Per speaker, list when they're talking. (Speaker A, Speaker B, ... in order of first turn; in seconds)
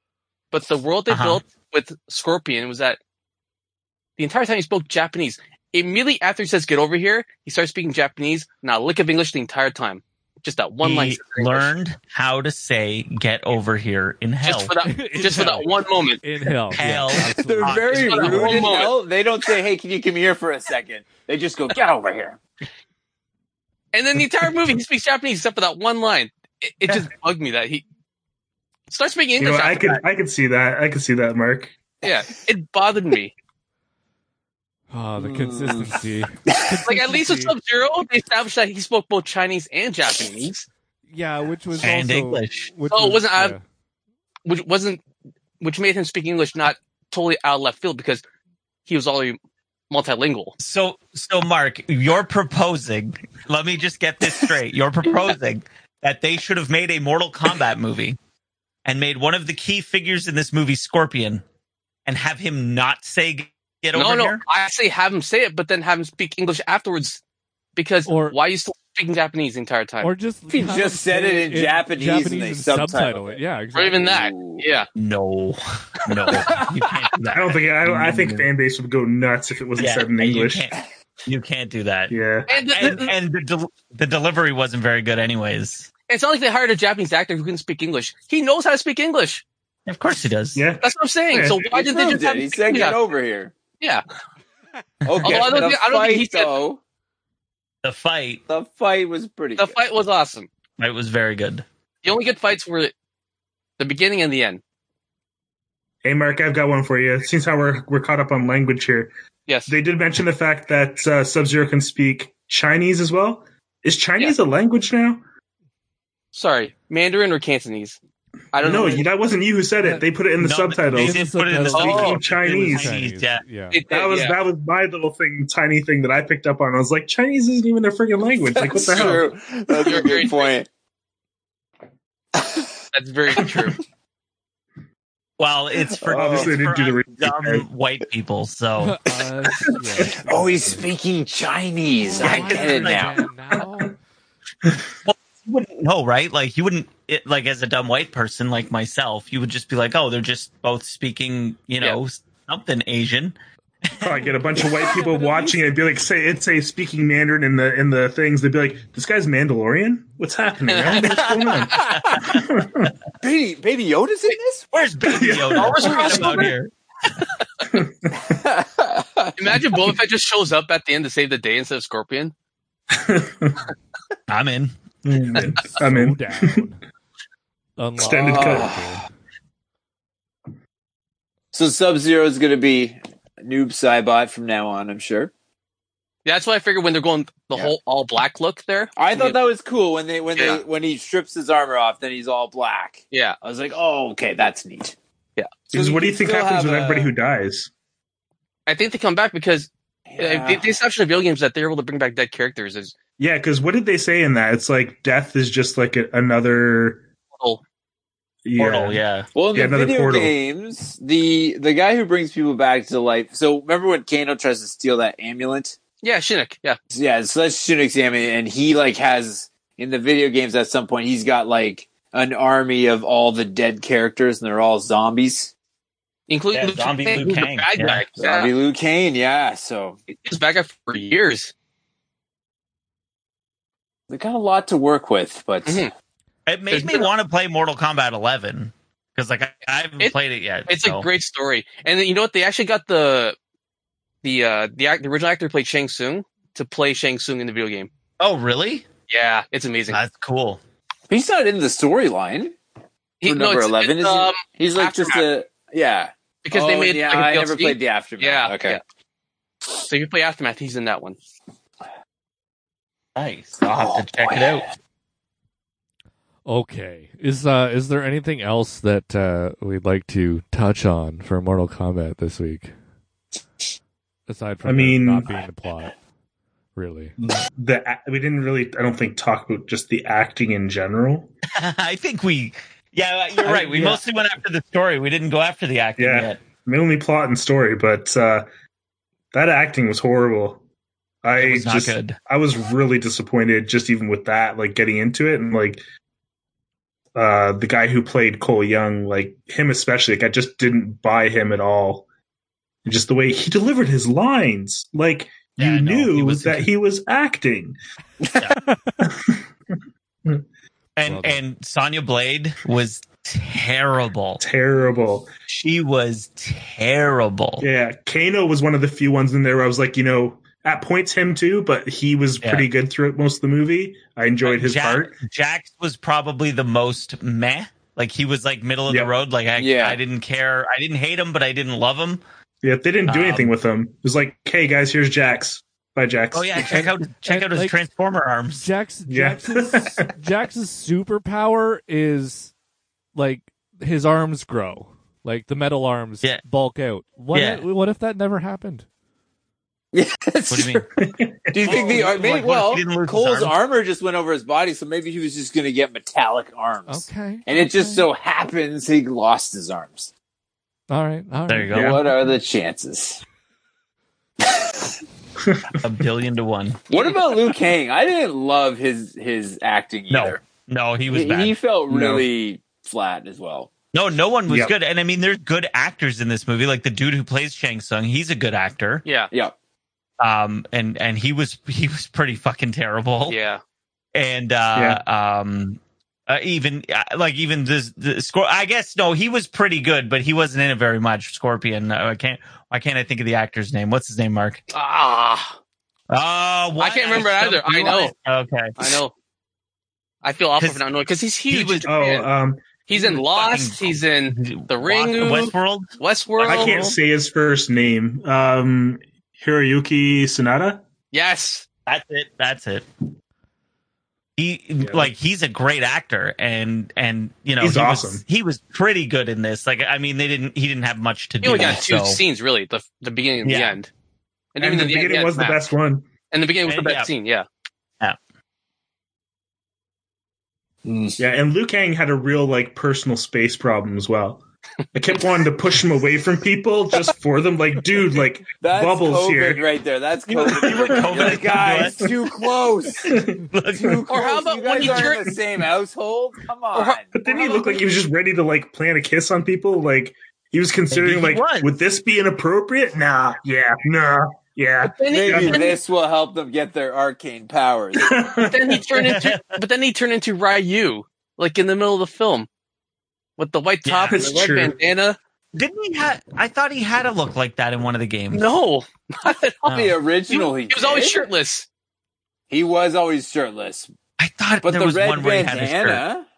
Speaker A: 0.5-3.0, 4.2-11.7, 14.4-16.2, 18.0-18.9, 23.9-27.8, 28.9-30.0, 32.0-33.3, 36.9-40.7, 42.9-43.5, 44.5-45.0, 45.6-48.2, 48.9-49.4, 49.9-50.5, 64.0-67.2, 67.8-70.1, 73.8-74.9, 76.1-76.6, 82.5-83.1, 86.1-89.4, 90.8-93.0, 95.2-96.5, 99.6-100.5, 102.0-102.9, 103.8-104.6, 109.5-109.7, 116.3-118.0, 118.5-119.1, 121.8-122.2, 123.7-124.4, 129.7-130.5, 132.9-133.8, 155.0-155.6, 160.7-161.8, 165.8-166.5, 169.4-172.3, 186.2-189.4, 190.4-190.6, 198.7-202.9, 216.0-216.8, 226.3-228.5, 230.2-231.5, 235.7-235.9, 236.7-237.1, 240.7-243.4, 244.2-247.9, 249.1-250.0, 253.2-255.3, 256.4-258.8, 259.9-261.2, 379.1-379.3, 383.3-383.6, 394.7-395.6, 396.8-398.1, 398.8-399.1, 400.2-402.3, 402.9-407.0, 411.1-411.6, 421.4-423.9, 424.6-425.6, 426.3-427.4, 444.1-445.2, 446.8-447.8, 454.8-455.8, 458.5-462.5, 463.4-465.2, 468.3-471.7
Speaker B: 1.1-1.4, 10.8-14.7, 16.7-18.7, 41.8-42.7, 50.6-58.2, 58.9-61.4, 62.1-64.4, 75.0-78.5, 79.8-82.1, 82.7-85.9, 89.9-90.7, 95.1-95.6, 97.8-98.4, 100.8-101.7, 120.4-123.4, 135.4-139.0, 142.2-143.1, 145.1-154.2, 161.2-162.5, 164.7-166.7, 174.3-174.7, 208.6-209.3, 226.5-228.1, 236.5-241.1, 248.2-248.9, 249.9-250.6, 263.2-264.7, 281.6-286.4, 291.4-292.2, 305.6-306.7, 311.0-314.4, 315.5-317.7, 322.4-322.7, 324.4-332.2, 333.1-333.6, 336.3-338.7, 347.3-347.6, 350.5-350.9, 351.6-353.6, 361.5-362.0, 365.8-366.9, 370.1-371.6, 373.9-379.1, 380.2-383.4, 384.1-394.6, 396.1-399.0, 400.6-400.8, 401.5-401.9, 403.1-406.9, 411.9-412.9, 414.4-422.2, 423.4-423.8, 426.7-427.1, 440.4-442.1, 443.1-444.0, 450.9-451.7, 459.1-459.6, 463.9-464.2, 465.5-468.5, 474.2-476.0
Speaker C: 14.8-18.6, 34.9-37.5, 41.1-43.6, 68.1-68.4, 70.0-74.2, 119.8-120.1, 120.9-123.8, 138.8-140.9, 142.0-144.0, 175.7-176.8, 177.8-179.1, 266.5-272.7, 274.3-275.9, 276.8-277.1, 308.7-309.0, 311.0-311.4, 336.7-337.8, 338.6-342.5, 343.1-348.9, 356.9-358.1, 360.9-362.3
Speaker D: 17.3-22.4, 35.2-36.8, 70.5-73.4, 74.0-74.7, 76.4-76.9, 91.6-93.5, 95.0-96.8, 98.5-99.8, 128.5-130.7, 132.3-132.7, 133.4-133.7, 135.9-136.6, 140.0-143.2, 161.8-162.1, 163.2-164.7, 165.8-166.3, 168.2-169.7, 178.1-178.9, 181.5-185.3, 189.0-195.0, 195.7-197.1, 200.1-200.8, 209.3-215.8, 216.9-225.5, 228.2-230.0, 234.1-235.9, 251.1-252.6, 253.3-258.8, 263.6-264.6, 329.6-330.0, 349.9-350.9, 351.5-360.1, 361.7-363.2, 364.5-364.9, 366.9-370.4, 371.1-373.7, 430.8-431.2, 438.6-443.2, 443.8-447.1, 455.1-458.1, 469.7-471.3, 472.5-473.9, 474.6-476.3
Speaker E: 29.4-31.7, 77.3-80.7, 82.1-82.5, 90.5-91.6, 106.0-109.1, 109.7-115.2, 118.6-123.0, 123.9-129.3, 136.0-137.7, 154.0-162.9, 165.1-166.5, 167.7-168.2, 172.9-173.6, 175.1-176.6, 178.0-178.7, 195.7-197.7, 203.2-207.0, 208.4-209.0, 209.5-210.3, 274.6-275.3, 277.2-281.3, 283.4-284.0, 286.0-288.5, 289.3-290.6, 291.2-295.8, 297.2-302.1, 302.9-307.8, 309.0-309.4, 314.4-315.3, 317.6-325.2, 332.6-336.8, 339.1-340.1, 351.0-352.2, 365.4-365.8, 371.9-372.3, 374.5-374.8, 384.8-385.0, 401.8-403.1, 406.4-410.8, 414.8-415.1, 417.6-418.2, 424.6-426.1, 431.2-434.4, 434.9-439.7, 440.3-441.9, 443.0-444.0, 444.8-445.7, 447.1-455.8, 458.0-459.0, 464.1-464.8